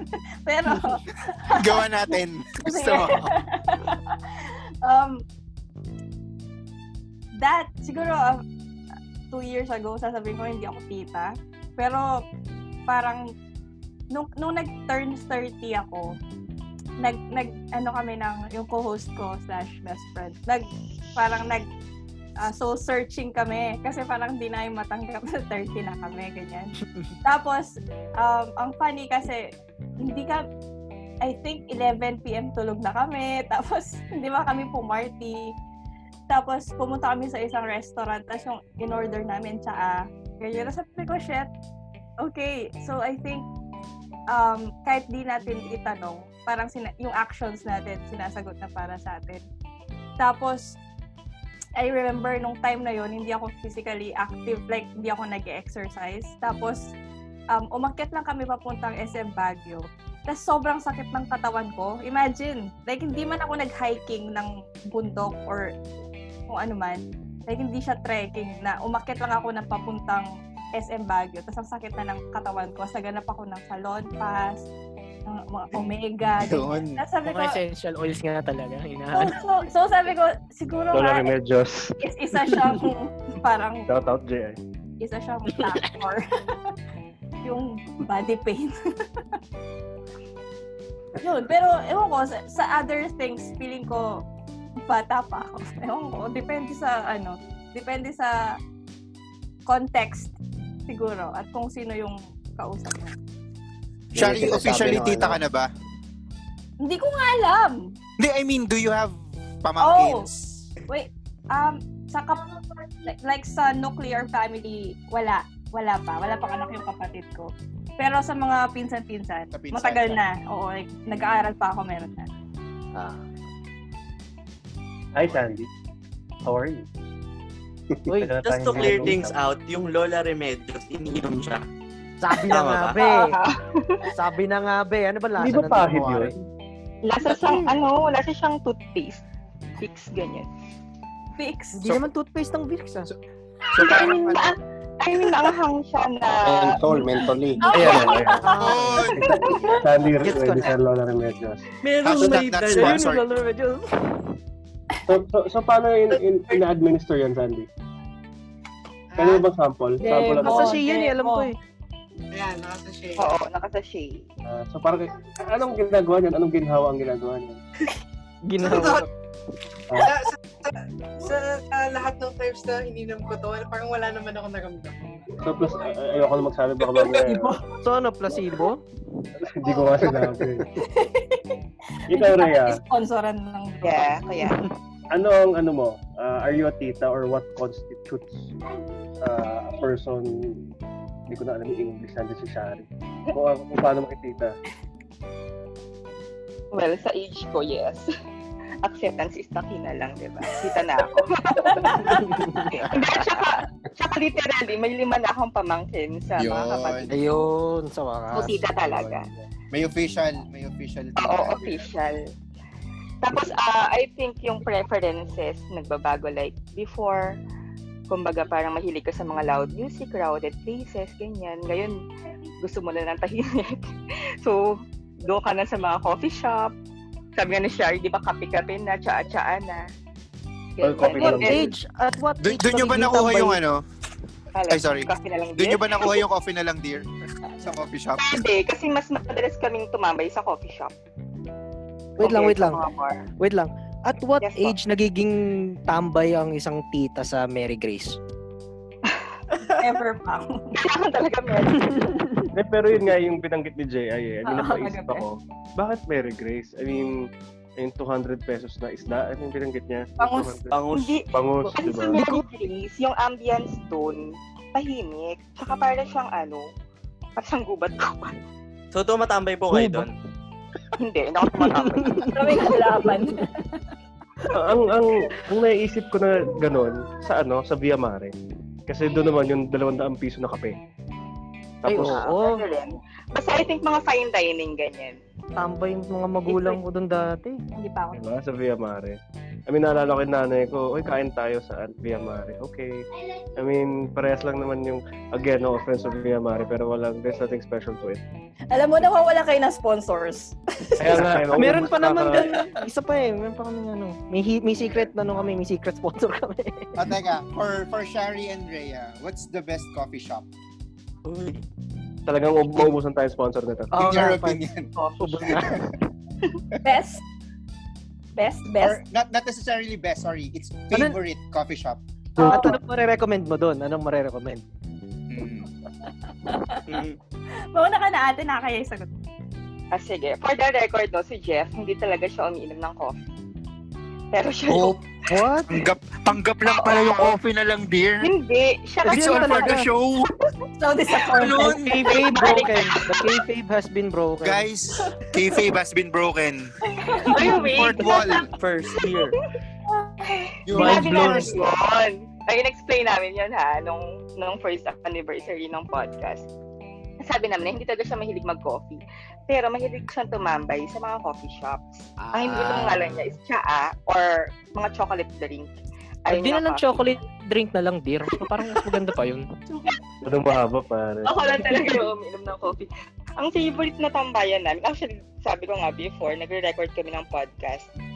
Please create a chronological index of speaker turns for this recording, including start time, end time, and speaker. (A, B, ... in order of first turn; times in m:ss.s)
0:00.4-0:01.8 A
0:01.5-0:03.3 B
0:02.6-0:04.2 A
0:04.8-0:05.2 A
0:07.4-0:08.4 A
0:09.3-0:12.1 A
0:12.9-0:13.2 A
0:14.1-0:16.1 A
0:17.0-0:21.7 A
0:22.4-0:29.5 A
0:30.0-0:30.4 A
0:31.2-0:35.5 A
0:36.3-0:41.5 A
0:42.2-0:43.4 A
0:44.3-0:49.4 A
0:50.2-0:50.8 A
0:51.8-0:56.9 A
0:57.5-1:05.7 A
1:06.5-1:14.6 A
1:15.3-1:17.6 A
1:16.4-1:17.0 B
1:17.2-1:19.4 C
1:19.1-1:21.3 A
1:20.9-1:21.9 D
1:22.0-1:23.8 A
1:23.9-1:24.6 D
1:25.0-1:26.2 A
1:25.5-1:25.9 C
1:27.4-1:28.7 A
1:31.2-1:34.2 A
1:34.9-1:38.6 A
1:39.7-1:40.3 A
1:40.9-1:43.1 A
1:44.1-1:45.4 E
1:44.1-1:45.7 B
1:46.8-1:47.9 A
1:48.2-1:50.7 B
1:49.8-1:50.3 A
1:50.9-1:52.4 A
1:53.0-2:02.3 A
1:59.5-2:00.2 B
2:03.0-2:03.2 C
2:05.1-2:05.7 D
2:06.4-2:06.8 D
2:08.1-2:09.2 C
2:08.2-2:09.4 D
2:08.4-2:11.6 F
2:12.2-2:13.4 C
2:12.4-2:13.0 F
2:13.0-2:14.0 G
2:14.1-2:16.3 C
2:15.4-2:16.4 D
2:17.0-2:19.2 G
2:17.3-2:17.7 C
2:19.8-2:20.5 G
2:21.4-2:22.0 A
2:21.7-2:23.1 C
2:23.7-2:24.6 B
2:23.8-2:27.1 G
2:26.4-2:27.9 E
2:27.6-2:29.7 A
2:27.7-2:31.7 D
2:27.7-2:28.2 G
2:28.5-2:29.0 C
2:28.5-2:29.3 B
2:30.2-2:30.7 C
2:31.8-2:33.0 F
2:32.0-2:33.2 B
2:32.2-2:34.2 C
2:35.1-2:37.7 D
2:39.1-2:39.4 H
2:39.2-2:40.8 D
2:40.0-2:41.5 A
2:40.2-2:41.6 C
2:42.3-2:43.3 H
2:43.2-2:44.2 G
2:44.5-2:47.6 D
2:48.4-2:49.1 C
2:48.6-2:49.0 H
2:50.0-2:55.1 H
2:55.4-2:57.6 D
2:57.8-2:58.8 C
2:59.4-3:00.7 D
3:00.0-3:00.6 E
3:00.9-3:01.6 A
3:02.1-3:02.8 D
3:02.1-3:04.1 A
3:03.8-3:04.6 G
3:05.1-3:08.5 D
3:09.2-3:10.7 D
3:11.3-3:14.5 D
3:16.7-3:18.1 G
3:18.8-3:22.2 G
3:21.6-3:22.4 A
3:22.0-3:23.1 C
3:22.8-3:27.3 G
3:26.4-3:27.1 B
3:27.1-3:28.6 C
3:28.3-3:29.3 G
3:29.7-3:31.7 B
3:31.2-3:32.2 G
3:33.2-3:37.4 G
3:38.1-3:42.0 G
3:42.6-3:43.8 G
3:44.4-3:46.7 G
3:47.4-3:49.8 G
3:50.8-3:51.7 G
3:50.8-3:51.7 D
3:51.1-3:53.6 C
3:52.4-3:53.8 B
3:54.5-3:56.2 G
3:54.7-3:57.0 B
3:57.6-3:58.4 B
3:58.2-4:00.9 G
4:02.2-4:02.8 C
4:02.2-4:03.2 G
4:03.4-4:08.2 C
4:04.4-4:04.7 G
4:09.7-4:10.7 A
4:10.7-4:12.0 G
4:12.5-4:17.1 D
4:14.4-4:15.2 A
4:17.8-4:20.8 D
4:20.2-4:20.5 A
4:20.7-4:21.2 F
4:20.9-4:21.2 G
4:21.3-4:22.2 D
4:21.8-4:26.6 G
4:22.1-4:22.4 C
4:27.4-4:28.3 G
4:28.9-4:30.1 F
4:29.7-4:30.0 C
4:31.0-4:32.7 G
4:31.6-4:32.5 C
4:32.3-4:33.8 A
4:34.5-4:38.3 D
4:38.9-4:40.8 D
4:41.8-4:42.3 D
4:41.8-4:42.6 C
4:42.0-4:45.2 G
4:45.6-4:47.6 C
4:47.8-4:48.2 A
4:48.1-4:53.0 D
4:53.6-4:58.2 D
4:58.7-5:01.3 A
5:01.0-5:02.5 D
5:01.1-5:07.0 C
5:07.0-5:10.4 B
5:11.2-5:11.6 F
5:12.2-5:14.0 D
5:13.9-5:14.6 C
5:13.9-5:14.9 B
5:15.0-5:15.4 G
5:15.2-5:15.8 C
5:15.4-5:15.8 B
5:16.8-5:17.2 A
5:18.4-5:19.0 A
5:18.8-5:22.0 B
5:22.4-5:24.6 C
5:22.4-5:22.7 A
5:22.4-5:22.7 D
5:25.3-5:25.7 B
5:26.4-5:26.8 A
5:26.9-5:27.2 F
5:27.7-5:29.1 A
5:29.9-5:33.2 G
5:34.3-5:35.0 G
5:34.7-5:35.0 B
5:35.3-5:35.8 C
5:35.7-5:38.3 B
5:36.6-5:37.3 G
5:38.2-5:39.8 G
5:39.0-5:39.9 C
5:39.1-5:40.3 B
5:40.8-5:41.8 A
5:41.3-5:42.1 B
5:41.5-5:44.6 C
5:42.1-5:43.3 G
5:44.4-5:46.7 B
5:47.0-5:47.5 A
5:47.2-5:48.4 G
5:47.4-5:48.5 B
5:48.5-5:49.4 F
5:50.0-5:50.5 A
5:50.3-5:56.4 G
5:50.6-5:51.6 B
5:50.8-5:51.4 C
5:57.2-6:05.7 G
6:02.2-6:03.2 B
6:06.2-6:07.0 G
6:06.3-6:09.4 C
6:10.2-6:11.4 D
6:11.2-6:17.9 G